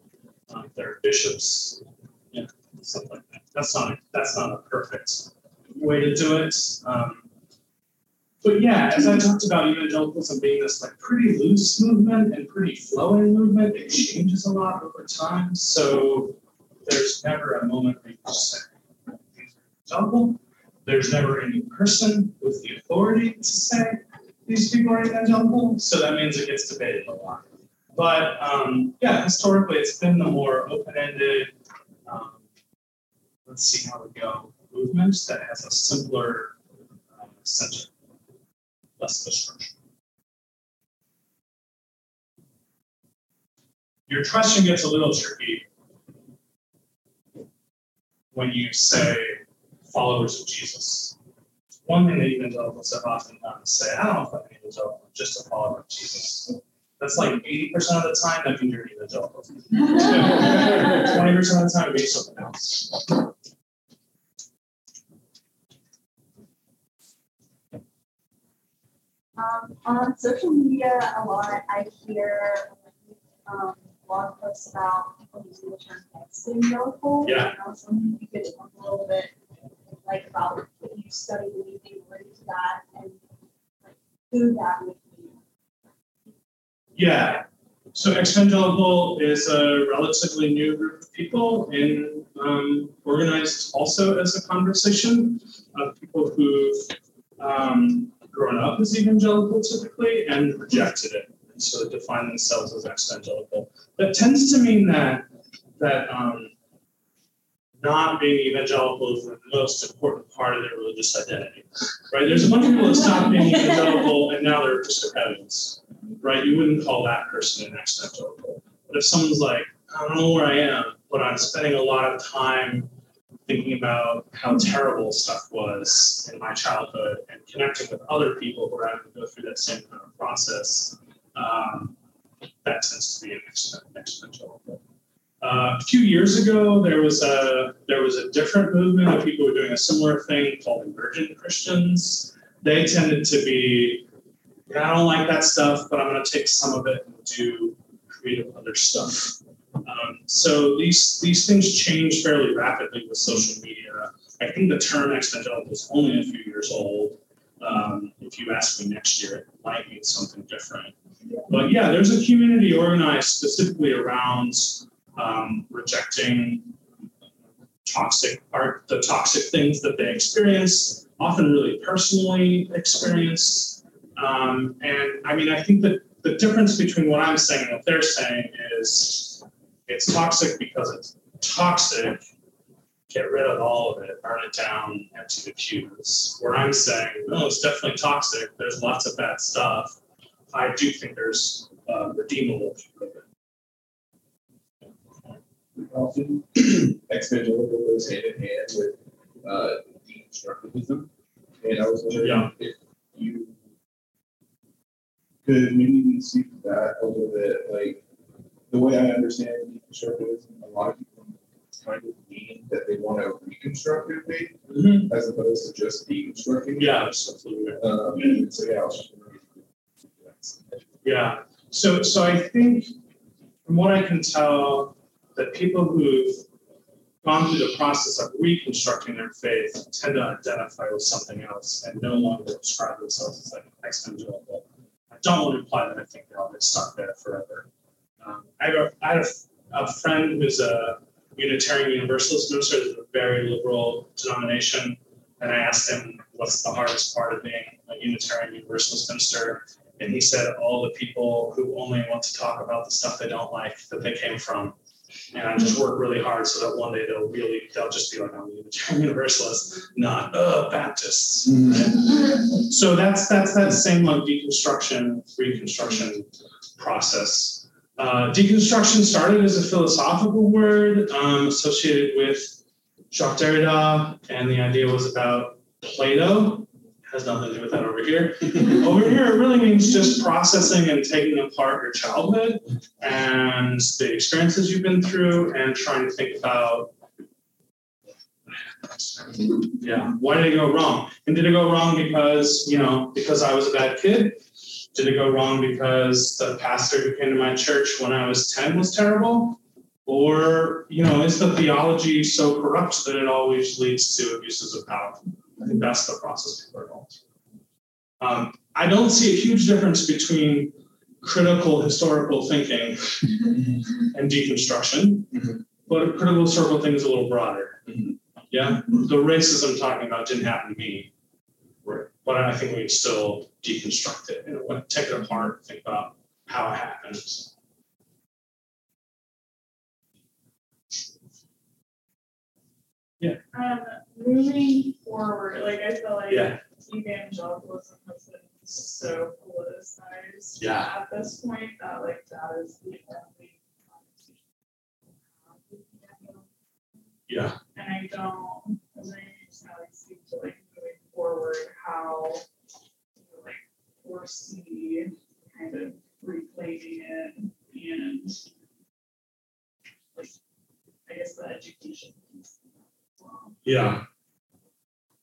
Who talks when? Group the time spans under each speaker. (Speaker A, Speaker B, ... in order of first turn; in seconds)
Speaker A: 0.5-7.2, 8.4-18.7, 19.4-31.5, 32.1-32.4, 33.5-36.5, 37.2-37.9, 39.0-39.8, 44.1-45.7, 48.3-51.1, 51.9-63.1, 77.2-77.5, 87.0-105.3, 105.8-106.5, 107.8-122.9, 123.5-131.9, 132.6-134.8, 135.4-144.1, 144.7-160.9, 161.5-166.7, 167.8-182.2, 183.1-190.0, 190.5-193.2, 202.1-202.5, 214.7-215.1, 216.8-217.8, 221.0-222.9, 223.7-226.4, 227.2-237.7, 238.2-254.8, 255.3-272.5, 273.1-286.9, 289.4-294.4, 294.9-307.2, 308.2-317.9, 318.5-321.1, 321.9-327.5, 336.3-336.6, 340.6-340.9, 347.3-347.6, 363.6-364.0
Speaker B: 69.4-79.3, 80.0-83.2, 83.8-85.3
Speaker C: 195.8-201.1, 201.6-203.6, 205.4-208.0, 208.7-217.0, 217.8-219.4, 220.2-220.9
Speaker D: 333.5-344.4, 345.4-346.5, 347.8-352.4, 353.2-358.4, 361.1-362.6, 363.2-363.6